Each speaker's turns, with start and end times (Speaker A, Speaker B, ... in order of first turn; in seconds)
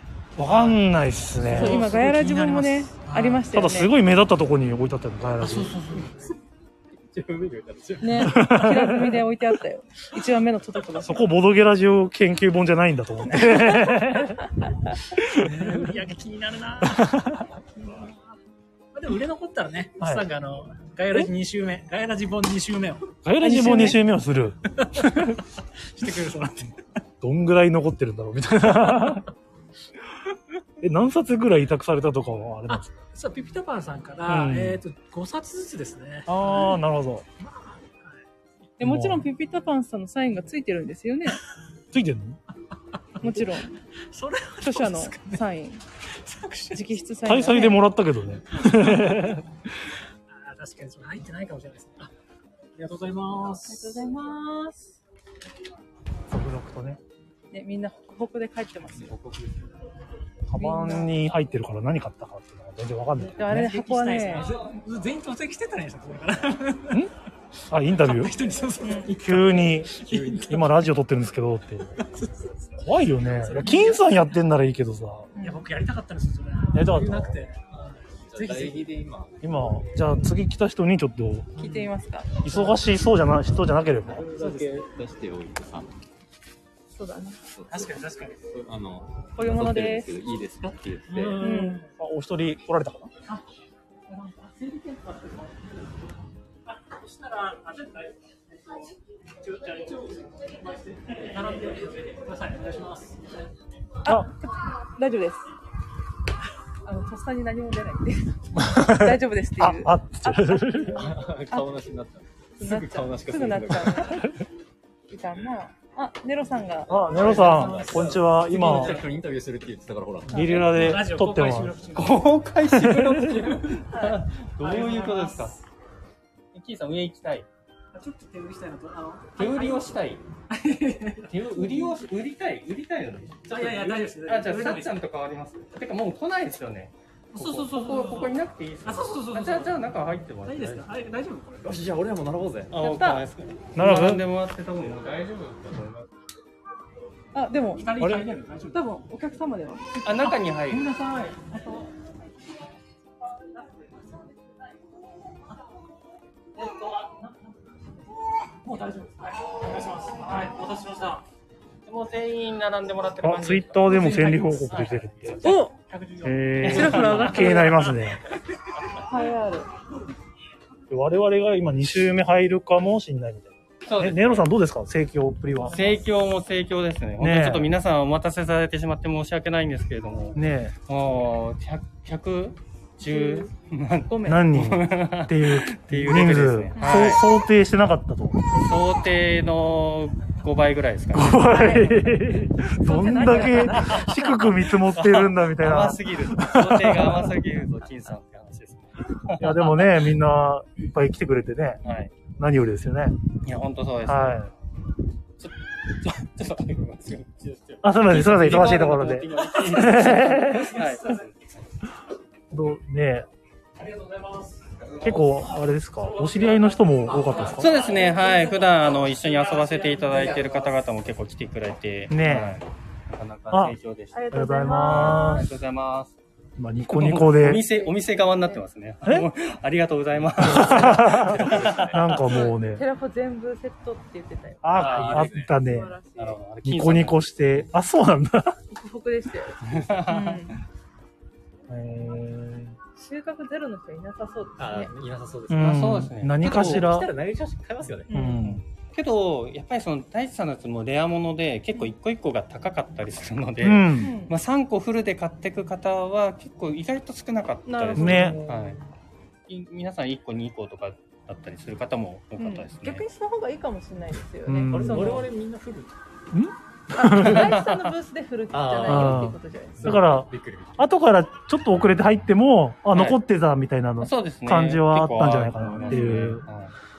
Speaker A: 0.4-5.8, 8.2-9.3, 11.0-14.5, 15.2-15.9, 16.8-17.5, 20.0-20.2, 23.2-25.4, 27.2-29.3, 30.8-33.0, 34.3-34.8, 36.3-37.3, 38.8-39.3, 41.9-42.4, 47.3-49.5, 56.3-57.0, 60.5-63.7, 67.7-68.4, 69.2-71.9, 72.8-75.3, 76.7-77.4, 79.4-81.5, 82.4-84.3, 91.5-93.1, 108.6-111.1, 116.9-119.0, 120.3-121.8, 122.7-123.3, 143.8-144.2, 148.0-148.3, 163.2-165.4, 166.2-168.2, 170.9-176.0, 177.2-177.7, 180.3-180.8, 184.3-188.4, 191.1-197.4, 199.4-203.2, 204.0-204.5, 207.8-210.8, 212.5-213.3, 215.0-217.8, 222.1-222.6, 223.5-223.8, 224.3-225.5, 226.6-227.6, 229.0-229.3, 230.4-232.8, 234.6-236.0, 236.6-238.6, 241.7-242.8, 245.5-247.1, 248.1-248.6, 253.6-254.2, 257.9-258.5, 264.5-265.3, 266.3-267.6, 268.9-276.5
Speaker B: 1.5-3.9, 8.0-11.3, 13.4-13.9, 23.4-24.0, 38.8-41.4, 43.2-43.8, 44.6-45.8, 46.7-47.8, 53.7-55.0, 57.5-59.1, 60.6-61.1, 63.3-64.5, 68.8-69.1, 75.4-75.7, 81.6-82.3, 86.9-87.4, 89.4-90.1, 91.4-91.8, 104.0-105.5, 106.8-111.7, 112.6-114.3, 115.1-117.0, 142.8-143.2, 147.3-147.9, 148.7-150.4, 165.4-165.7, 166.7-167.8, 169.0-169.7, 183.1-183.5, 184.1-184.4, 186.8-187.2, 191.4-194.3, 224.1-225.5, 227.5-228.6, 232.2-234.8, 235.5-236.4, 238.7-240.6, 243.0-244.9, 248.1-248.6, 254.0-254.3, 257.7-258.5, 262.4-265.2, 266.9-270.0
Speaker C: 3.1-3.4, 15.4-18.2, 18.9-23.2, 24.8-25.4, 25.9-26.8, 32.7-36.4, 37.4-38.2, 44.1-45.5, 46.1-47.0, 48.6-49.4, 50.3-52.1, 52.8-54.0, 63.5-67.1, 68.0-70.7, 72.0-72.7, 73.3-74.2, 75.4-79.0, 84.3-84.9, 87.7-88.4, 91.1-91.8, 94.1-95.7, 96.7-98.9, 99.4-103.5, 117.2-119.0, 120.5-122.3, 123.4-123.9, 124.4-125.6, 127.9-130.0, 130.5-132.0, 133.4-135.0, 137.3-139.8, 140.4-141.8, 147.6-148.9, 150.7-151.9, 156.6-157.8, 158.6-161.2, 163.8-168.1, 209.3-211.3, 213.8-215.1, 216.1-220.8
Speaker D: 7.0-8.6, 58.9-59.7, 70.1-70.6, 78.3-79.3, 84.1-86.0, 87.5-91.4, 111.0-114.2, 116.9-120.7, 141.6-142.7, 230.4-232.1, 234.8-235.5, 244.6-248.1, 264.7-265.9, 268.5-269.3, 269.8-270.9, 275.6-276.3
Speaker E: 121.9-125.6, 126.5-127.5, 129.3-130.2, 131.3-140.9, 142.7-146.1, 150.0-151.0, 161.9-164.1, 166.6-167.5, 173.9-174.5, 175.7-187.3, 188.5-191.4, 194.9-199.9, 201.8-202.2, 203.4-204.4, 205.4-211.3, 217.5-224.2, 224.8-226.2, 226.9-232.2, 234.8-235.3, 236.2-237.6, 239.7-240.6, 245.6-246.9, 248.9-258.8, 259.5-263.1, 267.3-267.9, 272.9-273.2, 274.0-276.7